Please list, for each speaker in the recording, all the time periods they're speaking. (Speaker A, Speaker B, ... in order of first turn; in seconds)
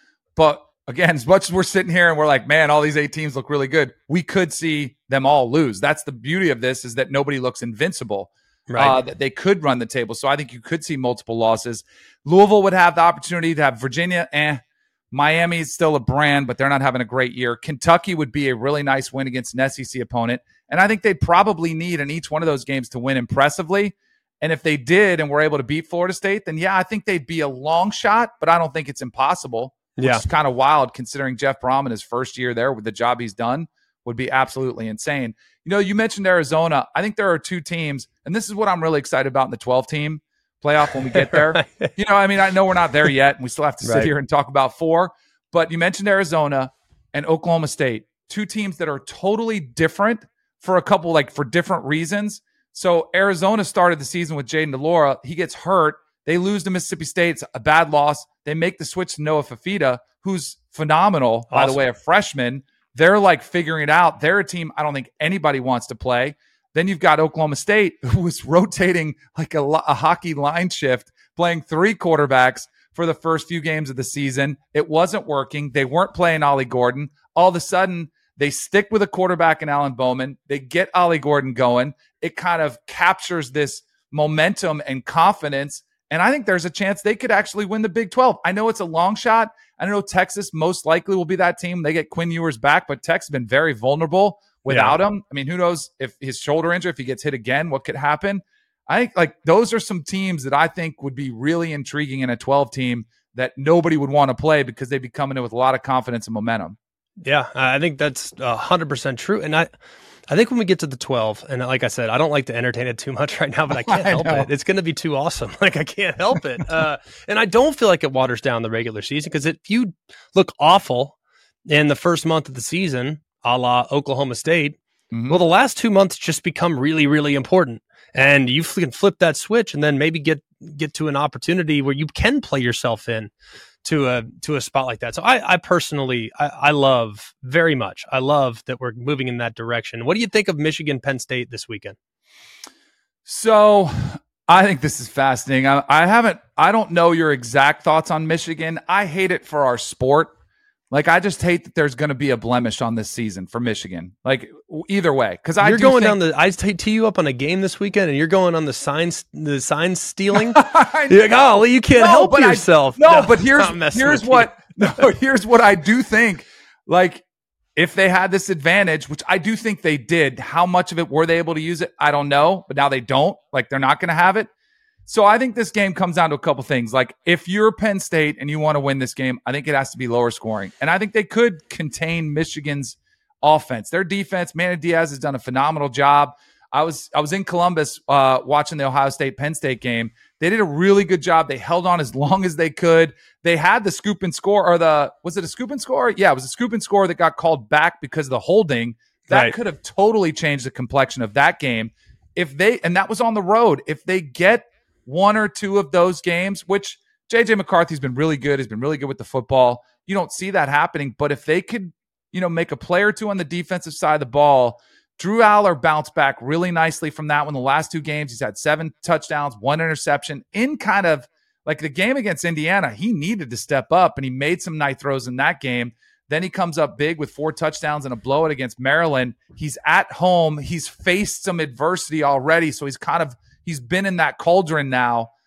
Speaker A: 0.3-106.8, 113.7-114.5, 125.1-125.4, 143.2-150.3, 150.9-156.2, 160.3-167.2, 167.8-174.5, 175.1-235.3
Speaker B: 8.7-9.0, 29.9-30.2, 41.2-41.9, 43.8-44.1, 61.5-61.8, 94.7-95.0, 107.2-109.7, 110.3-121.2, 121.7-133.3, 133.8-141.9, 155.6-165.0, 199.3-199.5